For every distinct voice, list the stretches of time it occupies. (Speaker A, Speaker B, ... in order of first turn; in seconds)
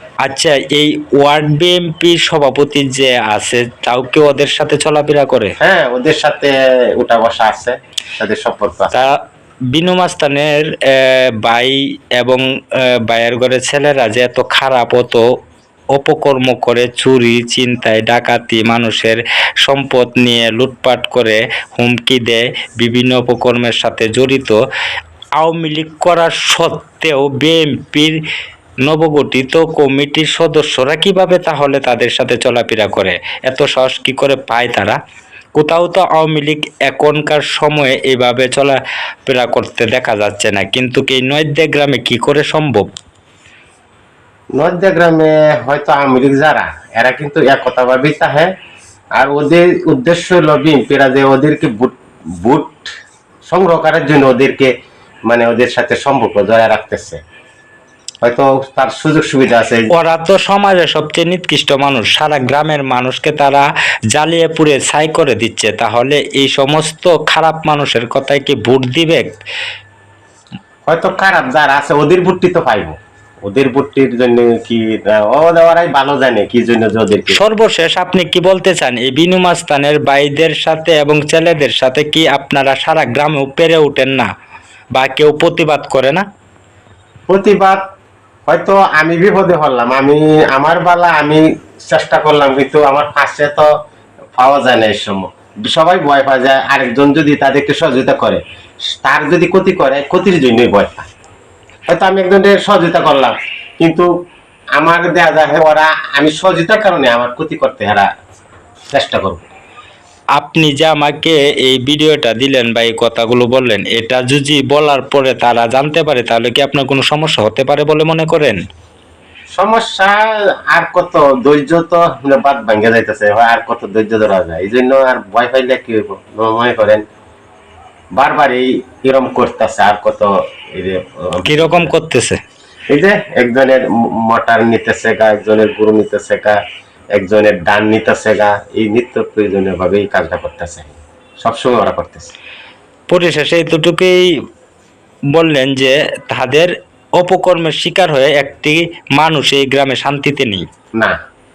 Speaker A: 0.2-5.6, 8.9-9.2, 9.7-15.2, 15.9-24.6, 25.4-28.2, 28.9-35.0, 35.6-42.9, 59.9-69.3, 77.3-84.3, 84.9-86.2, 110.4-118.6, 131.5-132.4, 143.1-144.2, 145.3-150.7
Speaker B: 5.6-9.1, 44.6-48.5, 49.1-52.9, 53.5-54.7, 55.3-57.2, 58.2-59.9, 70.9-77.4, 87.3-87.8, 88.5-93.7, 94.4-101.1, 101.9-104.1, 104.8-108.1, 108.9-109.4, 119.5-127.0, 128.1-131.9, 132.9-136.6, 137.1-142.3